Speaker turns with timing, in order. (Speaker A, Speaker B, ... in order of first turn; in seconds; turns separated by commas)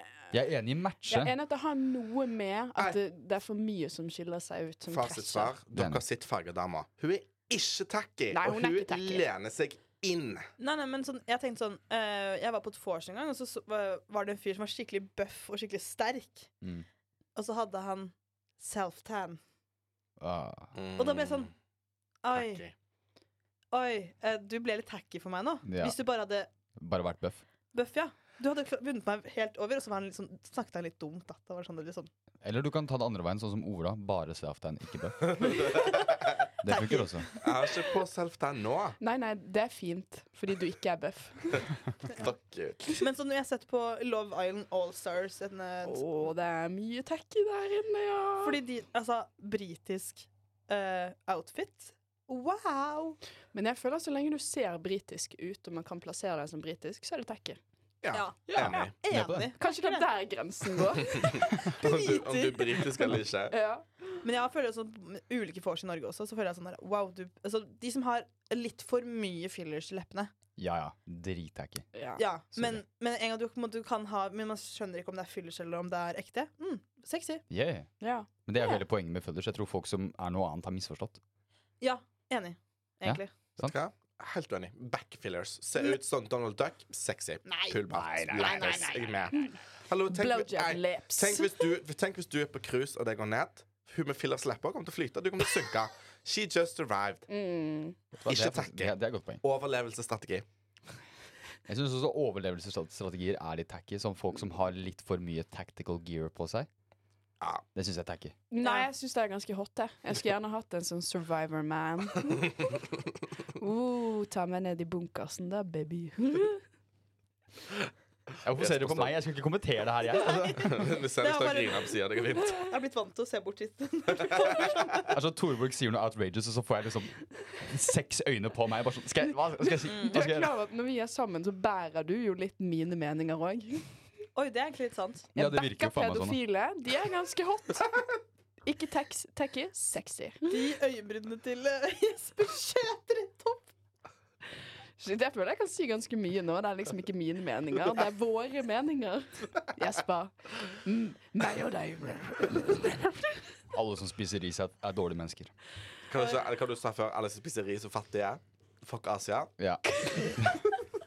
Speaker A: 0.3-1.3, Speaker B: 1.1-5.5, Speaker C: 4.9-10.5, Speaker A: 5.7-6.0, Speaker B: 8.3-9.2, Speaker D: 10.6-16.5, Speaker D: 17.4-19.4, Speaker A: 20.2-20.7, Speaker C: 20.8-21.5, Speaker D: 21.0-21.5, Speaker D: 22.2-22.6, Speaker C: 22.3-22.7, Speaker D: 23.7-26.5, Speaker A: 25.6-26.0, Speaker A: 26.8-27.4, Speaker D: 27.7-32.1, Speaker A: 32.4-35.9, Speaker C: 35.3-36.0, Speaker D: 35.5-37.5, Speaker A: 36.6-37.3, Speaker C: 37.4-39.0, Speaker B: 39.0-41.7, Speaker C: 42.1-42.8, Speaker D: 43.0-46.0, Speaker B: 45.8-48.6, Speaker D: 48.4-53.2, Speaker B: 53.5-57.6, Speaker C: 58.0-58.9, Speaker D: 58.1-60.1, Speaker B: 58.5-58.9, Speaker A: 59.1-59.5, Speaker B: 59.6-61.5, Speaker D: 61.5-63.1, Speaker C: 61.7-63.5, Speaker B: 63.5-64.2, Speaker D: 64.2-70.3, Speaker A: 70.6-71.9, Speaker B: 71.9-72.2, Speaker D: 72.2-77.4, Speaker A: 72.5-72.8, Speaker A: 77.5-77.9, Speaker B: 78.0-78.8, Speaker A: 78.5-81.2, Speaker D: 81.8-83.3, Speaker A: 83.0-83.7, Speaker C: 83.6-97.3, Speaker D: 87.5-89.3, Speaker A: 87.9-88.9, Speaker B: 90.1-91.5, Speaker B: 97.3-98.0, Speaker C: 98.2-100.5, Speaker A: 98.2-99.4, Speaker A: 101.7-106.7, Speaker A: 107.8-108.3, Speaker B: 108.5-112.5, Speaker D: 108.6-108.9, Speaker B: 113.5-116.6, Speaker A: 118.4-120.9, Speaker C: 118.5-119.2, Speaker D: 120.1-125.1, Speaker C: 120.6-122.7, Speaker A: 125.1-130.5, Speaker B: 129.6-133.9, Speaker D: 129.9-130.2, Speaker D: 134.3-135.3, Speaker A: 135.3-136.4, Speaker B: 135.4-138.0, Speaker B: 138.7-140.6, Speaker D: 140.5-143.7, Speaker B: 145.0-153.5, Speaker A: 153.7-155.5, Speaker C: 156.1-159.5, Speaker D: 156.2-156.4, Speaker B: 159.9-160.4